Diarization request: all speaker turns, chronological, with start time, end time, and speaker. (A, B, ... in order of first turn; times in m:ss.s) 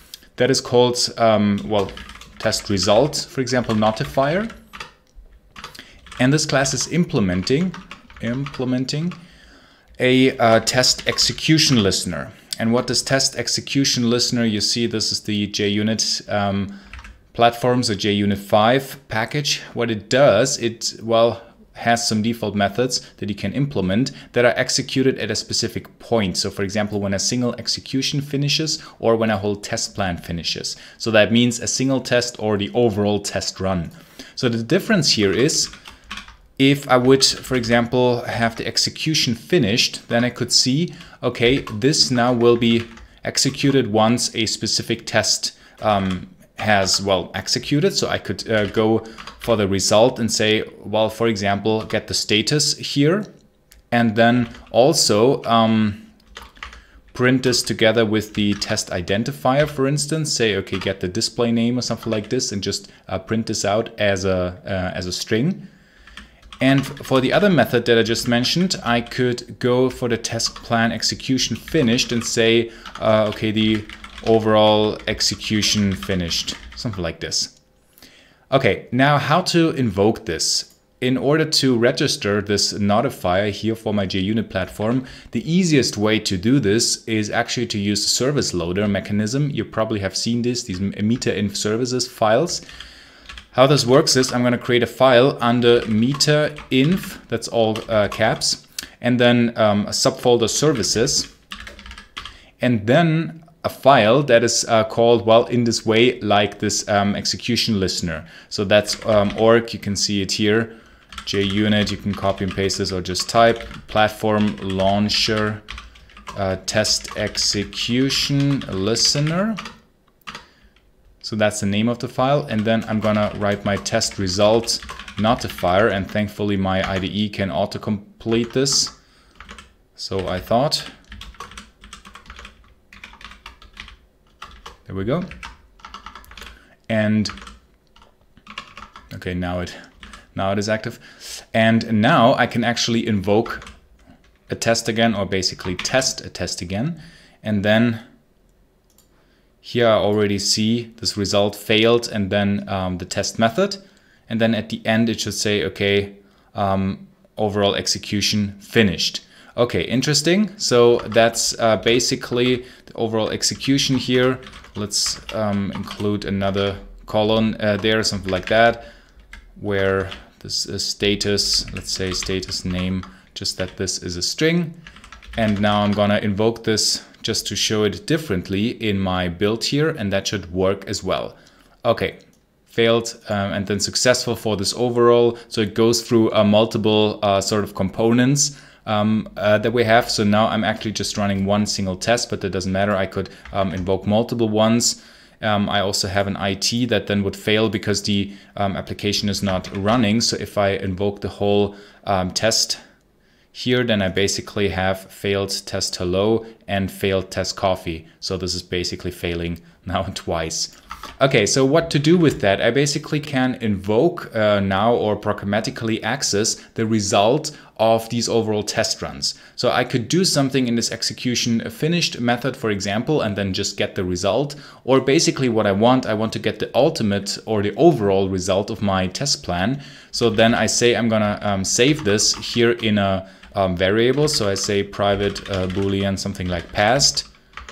0:00.4-0:04.5 A
0:06.2-0:09.2 A
0:10.0-0:16.7 A
0:17.3-0:35.7 A
0:36.6-0:53.3 A
0:53.9-0:56.0 A
0:57.1-1:05.7 A
1:06.6-1:17.5 A
1:18.5-1:32.6 A
1:33.5-1:41.3 A
1:42.6-1:50.7 A
1:51.2-1:55.6 A
1:56.3-1:59.6 A
2:01.2-2:08.9 A
2:10.0-2:10.9 A
2:14.9-2:15.3 A
2:16.9-2:17.3 A
2:19.1-2:19.8 A
2:20.3-2:23.7 A
2:24.5-2:28.0 A
2:29.6-2:48.8 A
2:49.6-2:54.7 A
2:55.4-3:22.8 A
3:23.5-3:57.3 A